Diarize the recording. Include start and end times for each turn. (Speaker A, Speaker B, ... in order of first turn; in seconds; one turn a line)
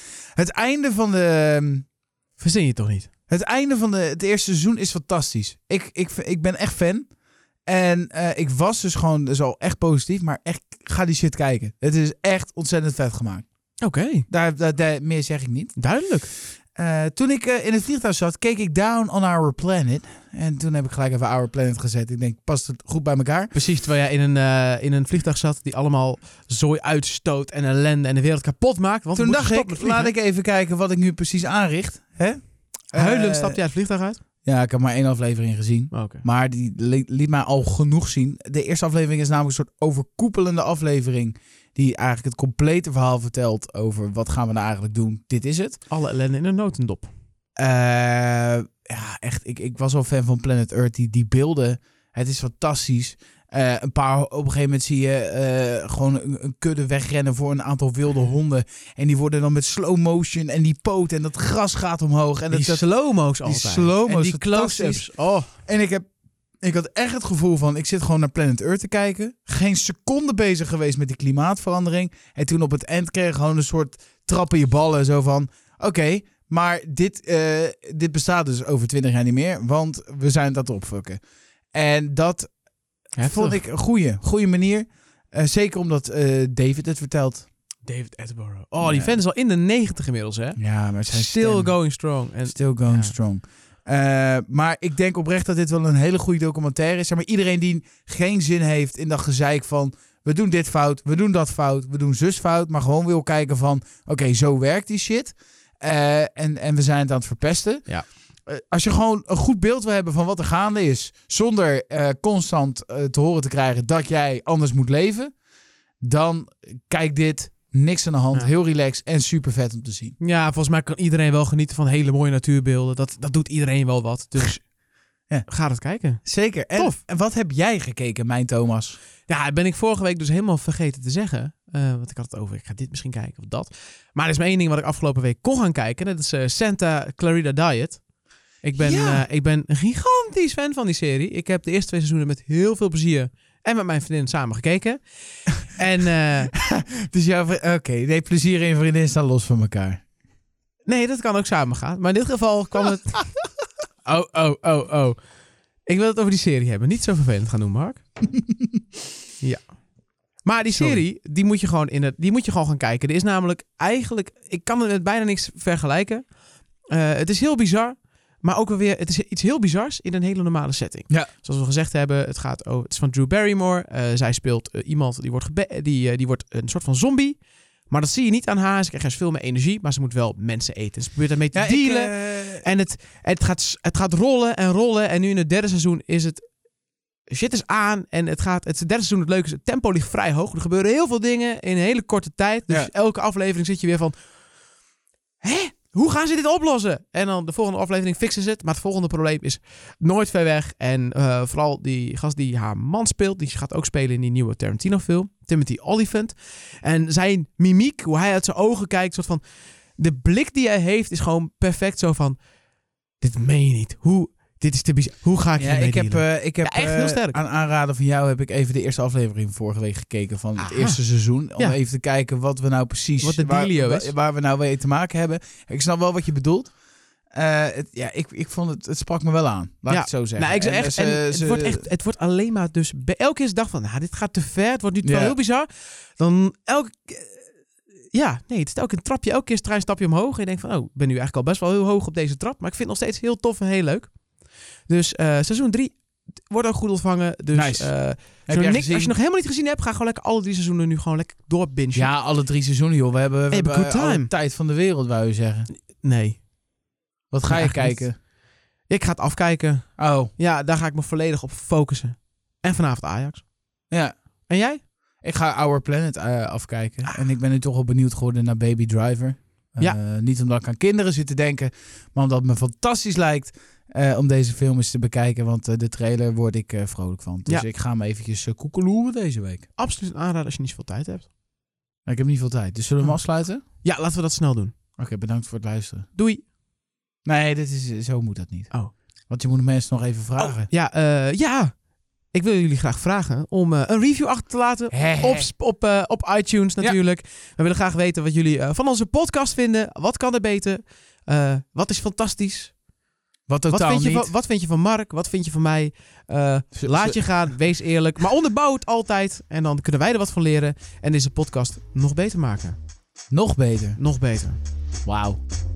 Speaker A: 0.3-1.8
Speaker B: 2.4-3.1
Speaker A: 3.3-7.1
Speaker A: 7.7-13.4
Speaker B: 13.8-14.2
Speaker A: 14.3-15.8
Speaker B: 15.8-16.3
Speaker A: 16.7-23.5
Speaker B: 23.5-30.1
Speaker A: 29.1-32.4
Speaker A: 32.9-33.6
Speaker B: 32.9-34.2
Speaker A: 34.4-45.8
Speaker B: 35.9-36.2
Speaker B: 45.9-47.1
Speaker A: 47.6-62.8
Speaker B: 62.5-65.5
Speaker A: 63.4-65.0
Speaker A: 65.7-66.0
Speaker A: 66.6-81.2
Speaker A: 81.7-82.5
Speaker B: 83.2-83.6
Speaker A: 83.2-87.5
Speaker B: 87.8-93.1
Speaker A: 88.8-89.2
Speaker A: 90.6-91.9
Speaker A: 92.4-115.3
Speaker A: 116.0-120.2
Speaker B: 120.2-124.7
Speaker B: 125.5-126.2
Speaker A: 126.2-129.0
Speaker B: 129.3-138.0
Speaker B: 138.6-145.0
Speaker A: 138.8-139.2
Speaker B: 145.6-146.5
Speaker A: 146.5-150.0
Speaker B: 150.8-153.3
Speaker B: 154.0-155.2
Speaker B: 155.8-158.0
Speaker B: 159.4-159.8
Speaker B: 160.4-166.3
Speaker A: 160.7-161.0
Speaker B: 166.9-186.4
Speaker A: 181.5-182.7
Speaker B: 187.3-194.1
Speaker B: 195.4-209.4
Speaker B: 210.0-212.4
Speaker B: 213.2-217.4
Speaker A: 215.6-226.7
Speaker B: 220.6-221.0
Speaker B: 223.2-224.1
Speaker A: 227.3-231.8
Speaker B: 229.9-237.4
Speaker A: 235.0-235.4
Speaker B: 238.1-244.1
Speaker B: 244.9-252.1
Speaker A: 247.5-249.1
Speaker A: 251.9-255.7
Speaker B: 253.5-254.3
Speaker B: 256.0-256.4
Speaker A: 257.3-258.1
Speaker B: 257.5-258.1
Speaker B: 258.9-263.5
Speaker A: 260.0-260.3
Speaker A: 263.9-264.1
Speaker B: 264.5-264.8
Speaker A: 265.2-279.7
Speaker B: 279.8-281.3
Speaker A: 282.1-283.6
Speaker B: 283.8-284.7
Speaker A: 285.0-286.1
Speaker B: 286.1-286.4
Speaker A: 287.2-290.7
Speaker B: 290.4-291.8
Speaker B: 292.3-302.8
Speaker A: 294.9-295.5
Speaker A: 303.5-304.3
Speaker B: 303.7-312.8
Speaker A: 306.7-307.3
Speaker A: 313.3-314.0
Speaker B: 314.0-314.6
Speaker A: 315.0-315.4